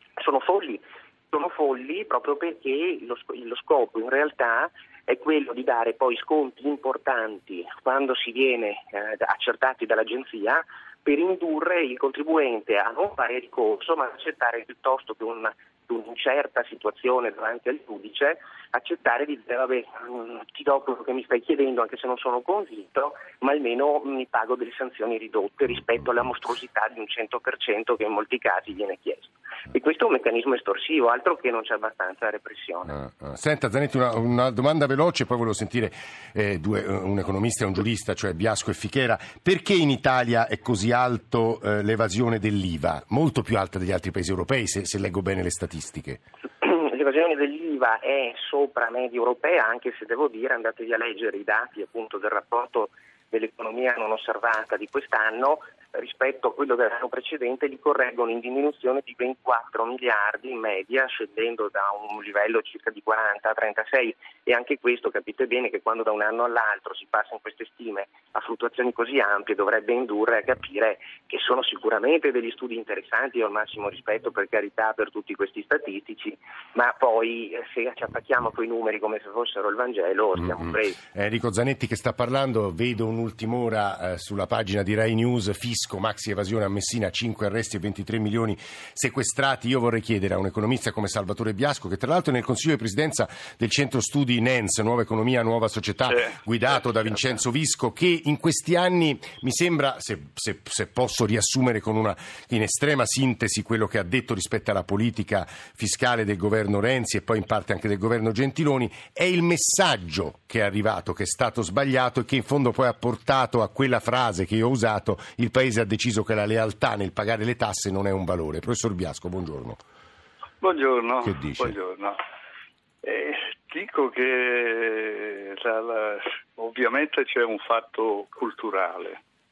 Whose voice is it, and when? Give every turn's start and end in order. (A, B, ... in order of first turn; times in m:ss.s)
0:00.2-0:33.0 A
0:32.9-0:46.2 B
0:46.6-1:21.0 A
1:20.4-1:59.8 B
1:36.1-1:36.8 C
2:00.6-2:02.2 C
2:01.2-2:01.8 B
2:03.0-2:09.2 C